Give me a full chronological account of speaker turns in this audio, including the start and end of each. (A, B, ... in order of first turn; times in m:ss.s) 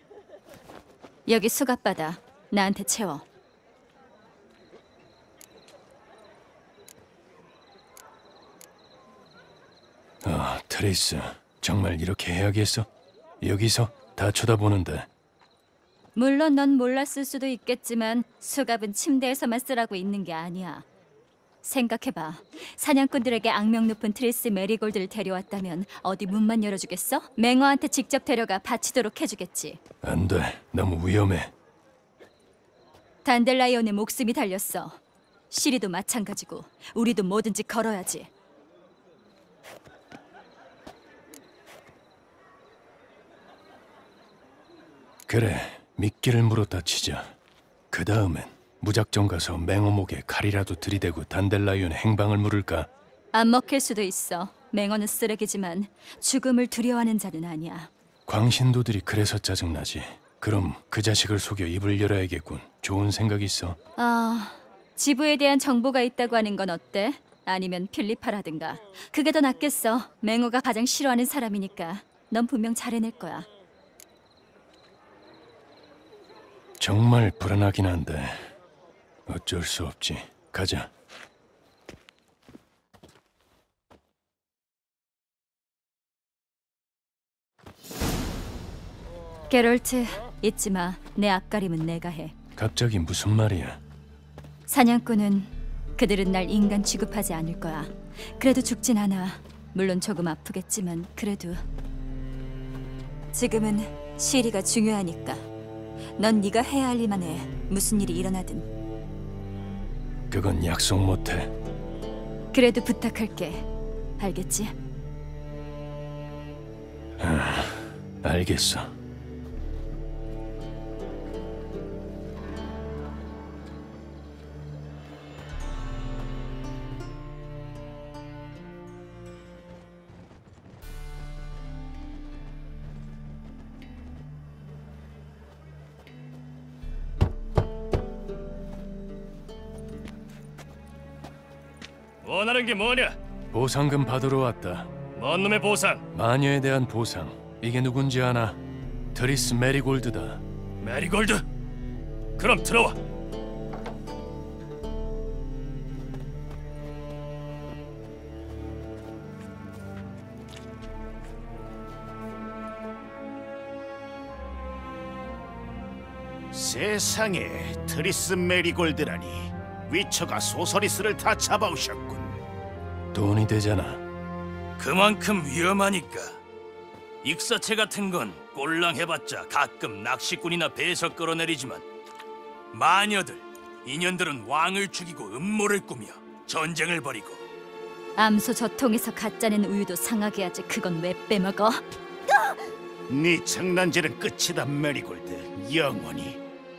0:01.3-0:03.2 A
0:10.2-0:12.9 B
0:13.4-0:15.1 B
0:16.2-0:20.8 A
0:21.6-0:29.8 A
0:30.0-0:31.5 B
0:33.2-0:35.0 A
0:35.5-0:38.3 A
0:45.3-0:47.3 B
0:47.9-0:52.9 B
0:53.3-0:57.9 A
0:58.3-1:03.8 B
1:04.0-1:13.5 A
1:16.8-1:18.5 B
1:19.3-1:20.9 B
1:29.5-1:32.4 A
1:32.6-1:33.8 B
1:34.7-1:41.6 A
1:43.3-1:45.4 A
1:46.2-1:48.7 A
1:50.3-1:51.5 B
1:52.5-1:53.6 A
1:54.2-1:54.7 A
1:57.2-1:58.9 B
2:22.2-2:23.2 C
2:23.5-2:24.9 B
2:25.2-2:26.0 C
2:26.1-2:28.6 B
2:29.1-2:30.4 B
2:30.8-2:31.4 C
2:32.4-2:33.0 C
2:46.5-2:52.4 D
2:53.1-2:54.0 B
2:54.8-2:56.4 C
2:57.2-3:01.8 C
3:02.7-3:07.4 C
3:08.2-3:11.8 A
3:13.1-3:16.4 D